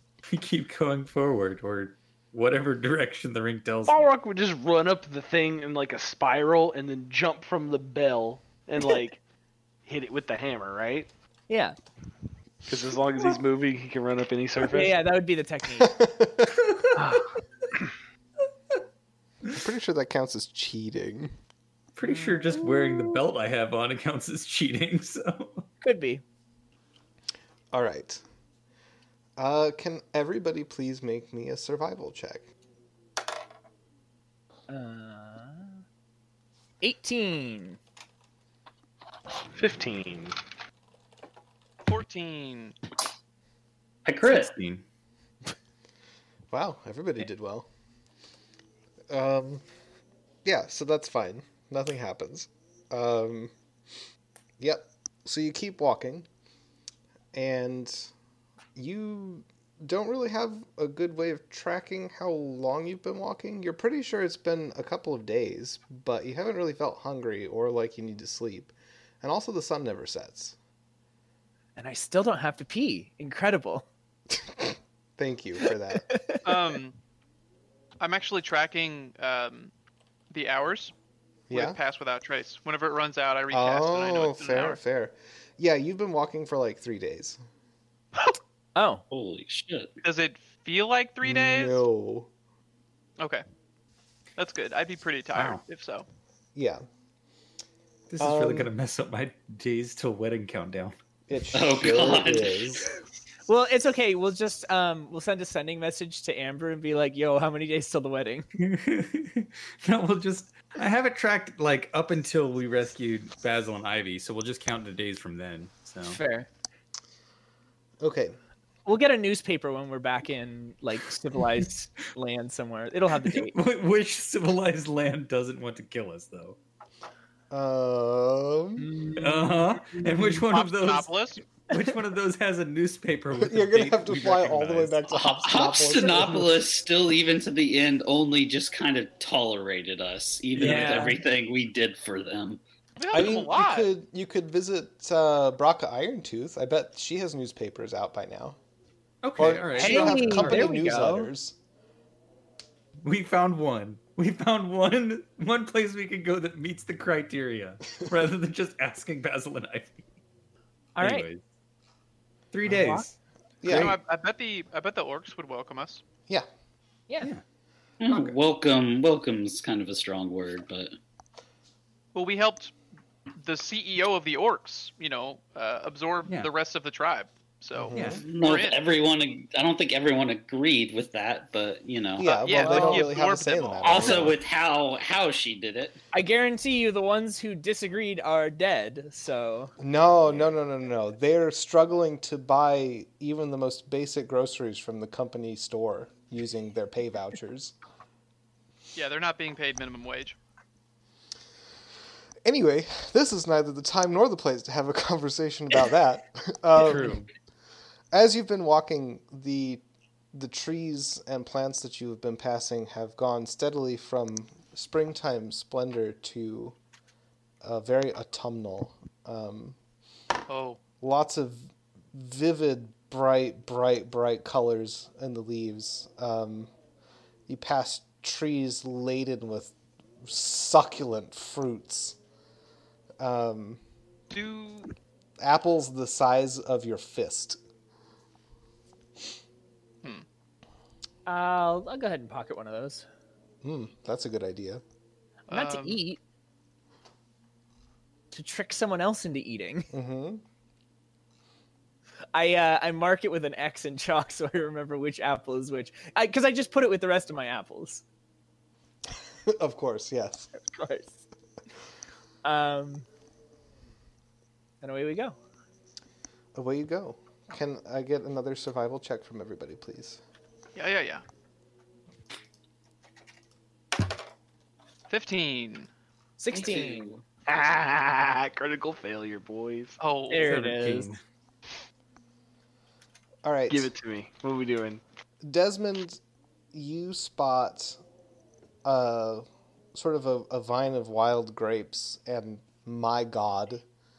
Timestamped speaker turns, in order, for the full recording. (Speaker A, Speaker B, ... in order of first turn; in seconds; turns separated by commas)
Speaker A: 0.2-4.1, Speaker B: 3.9-9.2, Speaker B: 9.8-11.1, Speaker C: 11.5-11.8, Speaker B: 12.7-15.0, Speaker C: 14.6-15.9, Speaker D: 15.8-16.6, Speaker B: 16.9-17.9, Speaker D: 19.5-21.3, Speaker A: 21.9-25.6, Speaker C: 22.3-22.5, Speaker C: 25.8-26.2, Speaker D: 27.7-28.2, Speaker D: 29.4-32.5, Speaker C: 34.7-35.8, Speaker C: 36.8-37.8, Speaker B: 39.5-40.4, Speaker E: 41.9-42.8, Speaker F: 44.0-44.5, Speaker A: 44.2-44.8, Speaker D: 46.5-47.7, Speaker D: 49.1-49.6, Speaker D: 50.4-53.5, Speaker D: 54.6-56.3, Speaker D: 57.3-58.1, Speaker D: 58.7-70.6, Speaker C: 71.8-73.8, Speaker D: 74.3-76.1, Speaker C: 75.9-76.4, Speaker E: 76.4-77.0, Speaker E: 78.0-79.7, Speaker E: 80.3-80.9, Speaker D: 81.5-81.8, Speaker E: 81.5-84.8, Speaker D: 83.5-87.4, Speaker C: 88.8-89.0, Speaker F: 89.1-89.9, Speaker E: 90.0-91.8, Speaker D: 91.2-92.3, Speaker E: 93.2-93.4, Speaker E: 94.3-96.0, Speaker A: 95.3-95.6, Speaker D: 96.5-96.8, Speaker A: 98.1-100.9, Speaker D: 98.2-98.7, Speaker D: 101.3-102.8, Speaker F: 101.5-102.8, Speaker C: 103.5-108.5, Speaker A: 108.6-116.2, Speaker C: 116.0-116.5, Speaker D: 118.0-118.4, Speaker C: 118.8-123.5, Speaker A: 123.2-126.6, Speaker D: 127.5-128.9, Speaker C: 128.8-130.4, Speaker A: 129.2-135.0, Speaker E: 130.5-131.4, Speaker D: 133.4-136.5, Speaker F: 135.1-142.6, Speaker A: 140.5-141.2, Speaker C: 140.6-141.2, Speaker E: 143.0-143.9, Speaker D: 143.1-148.6, Speaker A: 149.2-150.8, Speaker D: 149.4-151.6, Speaker C: 149.7-151.3, Speaker A: 153.0-160.0, Speaker C: 161.0-161.3, Speaker A: 161.0-161.4, Speaker A: 162.5-163.1, Speaker C: 162.7-163.1, Speaker D: 163.6-164.0, Speaker A: 163.7-163.9, Speaker E: 163.7-166.0, Speaker F: 168.0-170.9, Speaker A: 168.1-168.3, Speaker E: 172.1-172.7, Speaker E: 173.4-178.8, Speaker D: 177.7-178.2, Speaker C: 177.9-178.2, Speaker F: 178.2-182.3, Speaker D: 182.2-184.4, Speaker E: 182.2-184.3, Speaker C: 182.6-183.0, Speaker F: 183.8-186.0, Speaker C: 186.1-189.7, Speaker D: 189.8-197.7, Speaker E: 198.9-200.4, Speaker D: 202.4-207.2, Speaker A: 206.7-207.3, Speaker D: 208.1-216.8, Speaker D: 217.6-219.8, Speaker E: 220.5-220.8, Speaker D: 221.0-226.7, Speaker D: 227.5-232.2, Speaker D: 233.2-233.8, Speaker E: 234.3-234.9, Speaker D: 235.4-237.6, Speaker C: 241.2-243.1, Speaker D: 243.6-244.8, Speaker E: 245.5-246.0, Speaker C: 245.5-246.2, Speaker C: 248.3-249.9, Speaker D: 249.9-250.4, Speaker C: 252.3-258.0, Speaker D: 259.4-260.5, Speaker C: 260.5-261.2, Speaker C: 262.4-263.1, Speaker C: 264.8-265.4, Speaker D: 266.5-270.2, Speaker E: 270.7-271.2, Speaker E: 275.1-275.9, Speaker C: 276.4-277.1, Speaker F: 276.5-277.2, Speaker B: 277.4-279.9, Speaker E: 280.0-280.5, Speaker C: 280.3-281.1, Speaker A: 280.4-281.2, Speaker D: 283.4-283.9, Speaker B: 283.7-285.0, Speaker D: 285.4-286.2, Speaker D: 286.7-288.0, Speaker D: 288.8-293.8